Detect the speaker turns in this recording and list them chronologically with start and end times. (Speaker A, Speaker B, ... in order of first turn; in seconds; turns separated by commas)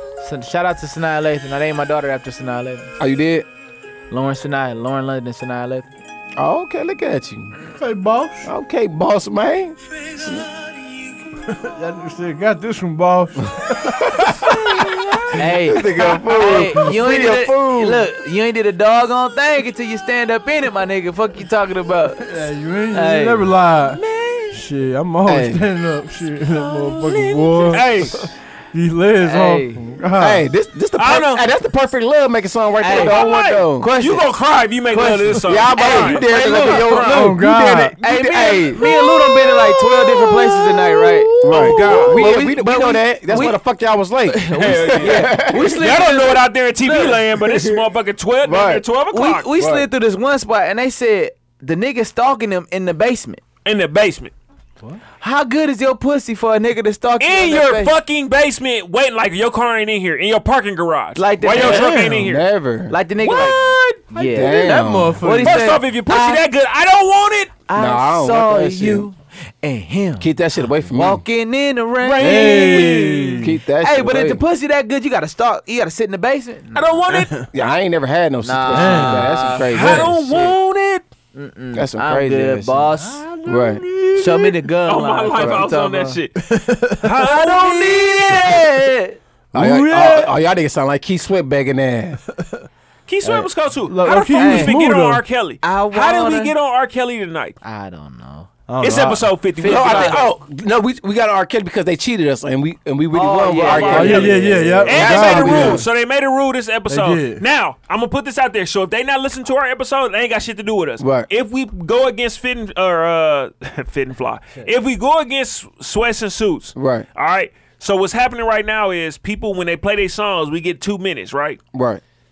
Speaker A: 0.2-2.9, Speaker B: 3.0-3.5, Speaker A: 4.1-5.9, Speaker B: 6.4-7.5, Speaker C: 7.8-8.5, Speaker B: 8.4-10.5, Speaker C: 11.4-15.5, Speaker B: 14.1-14.9, Speaker D: 14.8-15.2, Speaker A: 15.3-22.3, Speaker B: 15.5-18.1, Speaker C: 22.2-24.0, Speaker A: 22.9-23.5, Speaker D: 24.0-24.5, Speaker C: 24.5-30.4, Speaker B: 25.2-25.6, Speaker D: 26.5-28.3, Speaker A: 29.2-29.8, Speaker B: 30.1-33.9, Speaker D: 31.0-31.4, Speaker A: 32.8-34.3, Speaker D: 32.9-37.4, Speaker A: 34.9-37.0, Speaker B: 35.5-38.9, Speaker C: 37.0-38.0, Speaker A: 38.0-43.6, Speaker C: 38.8-42.3, Speaker B: 41.4-45.9, Speaker D: 41.6-42.2, Speaker A: 44.3-47.2, Speaker D: 44.5-49.5, Speaker B: 47.4-47.8, Speaker B: 48.4-48.9, Speaker A: 49.1-53.4, Speaker B: 49.5-49.9, Speaker D: 53.6-54.3, Speaker A: 55.2-57.9, Speaker D: 57.2-62.5, Speaker A: 61.2-62.1, Speaker B: 61.4-62.9, Speaker C: 61.8-62.1, Speaker A: 62.9-66.4, Speaker D: 63.2-64.0, Speaker C: 64.1-65.7, Speaker B: 64.3-65.3, Speaker D: 65.5-67.5, Speaker A: 67.7-70.3, Speaker B: 67.8-69.1, Speaker B: 70.2-71.2, Speaker A: 70.9-72.9, Speaker D: 72.0-73.5, Speaker C: 72.2-73.5, Speaker B: 73.4-74.4, Speaker A: 73.8-77.0, Speaker D: 76.8-77.5, Speaker C: 77.1-77.5, Speaker B: 77.5-80.5, Speaker A: 78.4-80.2, Speaker C: 78.7-79.5, Speaker D: 79.7-81.1, Speaker A: 81.3-83.2, Speaker B: 81.7-82.9, Speaker C: 83.0-84.7, Speaker B: 83.5-83.8, Speaker A: 84.2-86.2, Speaker D: 84.9-86.4, Speaker B: 85.3-85.7, Speaker C: 86.4-87.1, Speaker D: 87.0-88.8, Speaker A: 87.2-89.2, Speaker B: 89.5-92.2, Speaker C: 89.6-90.2, Speaker D: 93.1-97.6, Speaker A: 93.2-93.5, Speaker C: 93.9-95.2, Speaker A: 94.3-94.8, Speaker A: 95.6-96.5, Speaker A: 97.6-98.5, Speaker C: 98.7-99.3, Speaker D: 98.8-100.2, Speaker A: 99.6-100.2, Speaker B: 99.6-105.9, Speaker A: 103.1-105.1, Speaker D: 103.6-121.6, Speaker C: 103.8-105.8, Speaker C: 106.9-107.4, Speaker B: 111.0-111.3, Speaker B: 116.8-117.0, Speaker B: 121.7-122.0